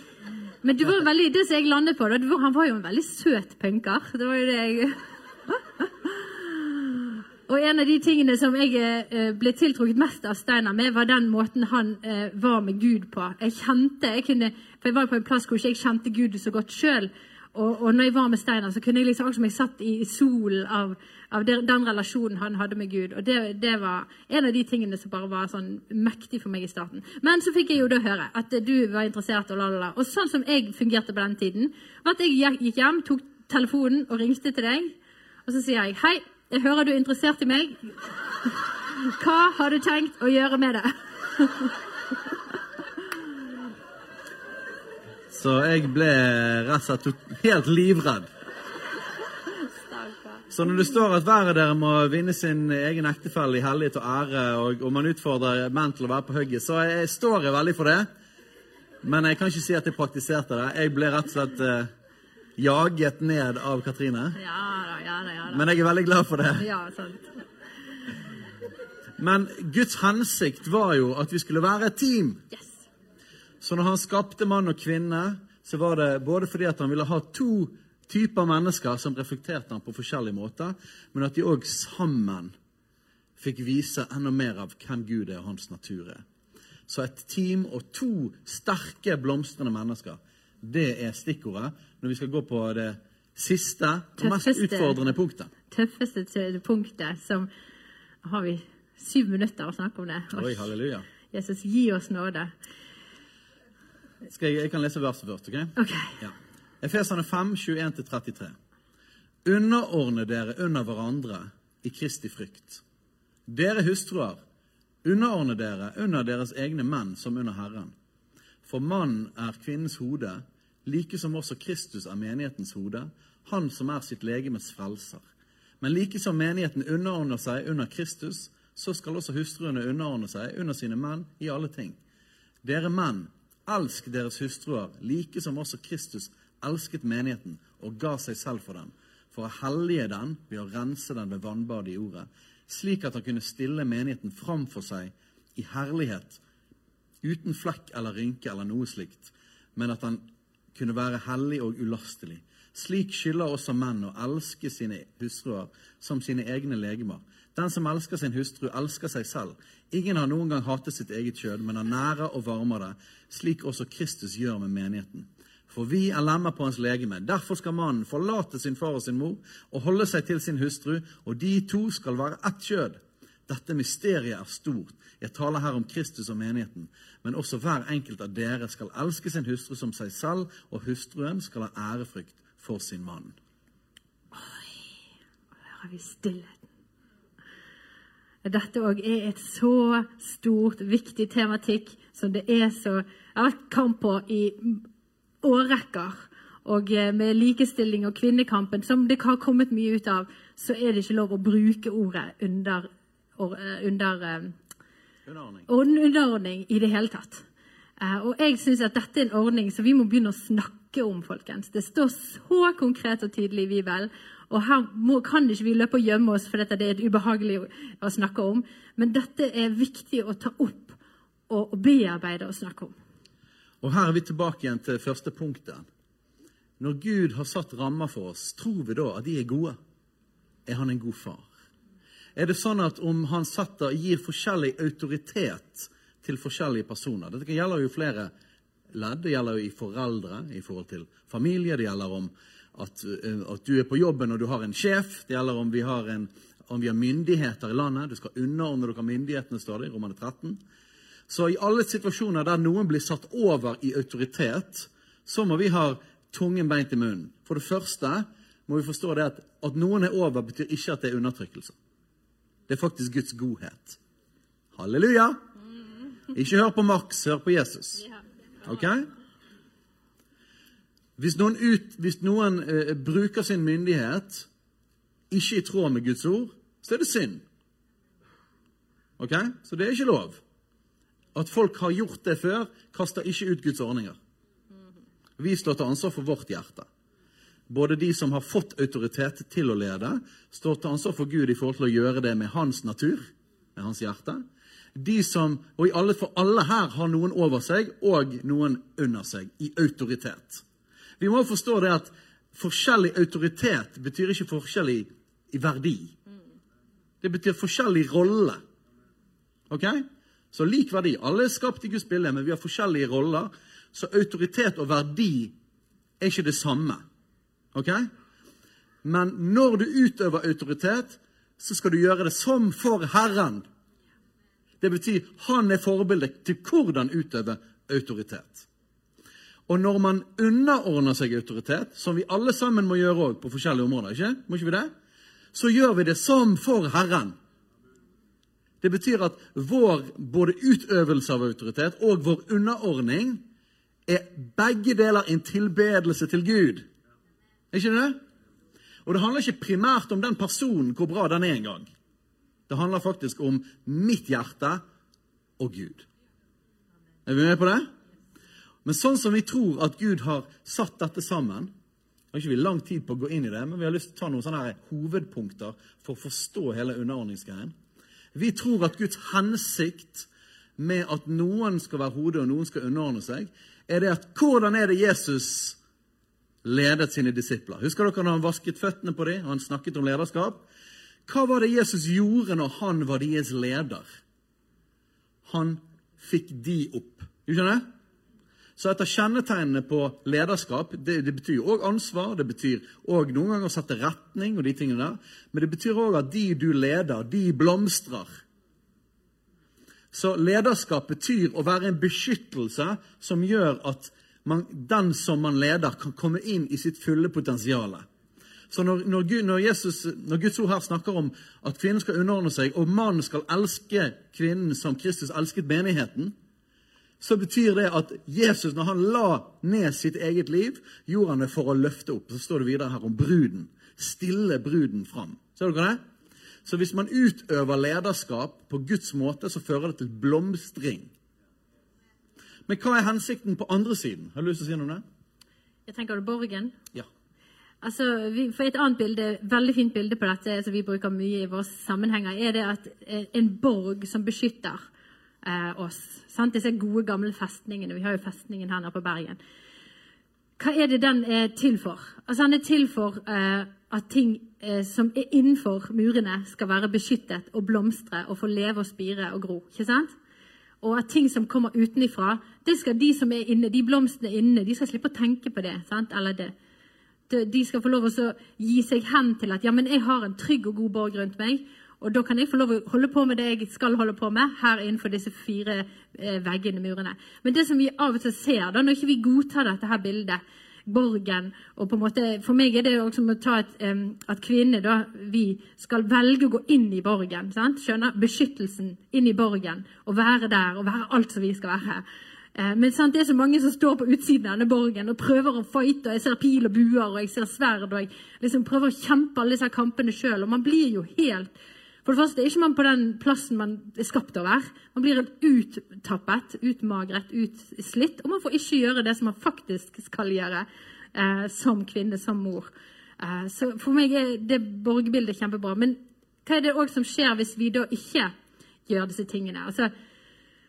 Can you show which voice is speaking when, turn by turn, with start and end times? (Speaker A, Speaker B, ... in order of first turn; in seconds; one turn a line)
Speaker A: 0.6-34.9
Speaker A: 35.5-37.9
Speaker A: 38.9-41.7
Speaker B: 45.3-48.3
Speaker A: 49.9-50.4
Speaker B: 50.5-58.1
Speaker B: 59.0-61.9
Speaker B: 62.6-64.4
Speaker A: 64.4-65.7
Speaker B: 65.5-66.7
Speaker A: 66.6-67.3
Speaker B: 69.2-72.4
Speaker B: 73.6-82.5
Speaker B: 83.4-86.2
Speaker B: 86.9-95.5
Speaker A: 94.2-95.0
Speaker A: 95.7-97.5
Speaker A: 98.2-100.7
Speaker B: 100.3-101.1
Speaker A: 101.3-102.5
Speaker B: 104.3-108.6
Speaker A: 105.8-106.2
Speaker B: 109.5-112.8
Speaker B: 113.5-114.4
Speaker B: 115.0-117.9
Speaker B: 118.7-125.3
Speaker B: 125.8-132.0
Speaker B: 132.6-146.4
Speaker B: 147.2-183.3
Speaker A: 184.3-184.8
Speaker A: 185.7-186.6
Speaker A: 188.4-194.8
Speaker A: 195.4-204.6
Speaker B: 205.3-205.7
Speaker A: 205.7-207.4
Speaker A: 208.0-221.0
Speaker A: 221.5-222.9
Speaker B: 223.8-225.9
Speaker B: 226.8-229.8
Speaker B: 230.7-231.5
Speaker B: 232.4-238.3
Speaker B: 238.9-250.6
Speaker B: 251.3-261.8
Speaker B: 262.7-264.0
Speaker B: 264.8-265.4
Speaker B: 266.3-268.1
Speaker B: 268.6-269.1
Speaker B: 271.2-274.5
Speaker B: 275.3-277.4
Speaker B: 279.2-280.4
Speaker B: 281.4-284.2
Speaker B: 285.4-286.9
Speaker B: 287.7-300.6
Speaker B: 301.2-306.2
Speaker B: 307.2-308.6
Speaker B: 309.7-315.5
Speaker B: 316.2-317.0
Speaker B: 317.7-318.1
Speaker B: 319.0-323.7
Speaker B: 324.8-328.7
Speaker B: 329.7-334.9
Speaker B: 335.5-337.4
Speaker B: 338.8-343.4
Speaker B: 344.1-346.9
Speaker B: 347.7-348.2
Speaker B: 349.1-351.9
Speaker B: 352.7-354.8
Speaker B: 355.6-356.1
Speaker B: 357.3-357.9
Speaker B: 358.9-361.7
Speaker B: 362.3-367.7
Speaker B: 368.4-375.8
Speaker B: 376.6-380.7
Speaker B: 381.3-384.1
Speaker B: 385.4-387.9
Speaker B: 388.8-398.4
Speaker B: 400.1-408.1
Speaker B: 408.7-416.4
Speaker B: 417.2-426.0
Speaker B: 426.7-431.1
Speaker B: 432.7-435.0
Speaker A: 435.9-436.8
Speaker A: 437.8-444.8
Speaker A: 445.4-449.4
Speaker A: 450.6-460.1
Speaker A: 460.8-466.5
Speaker A: 467.3-501.5
Speaker A: 502.1-518.3
Speaker A: 518.9-519.9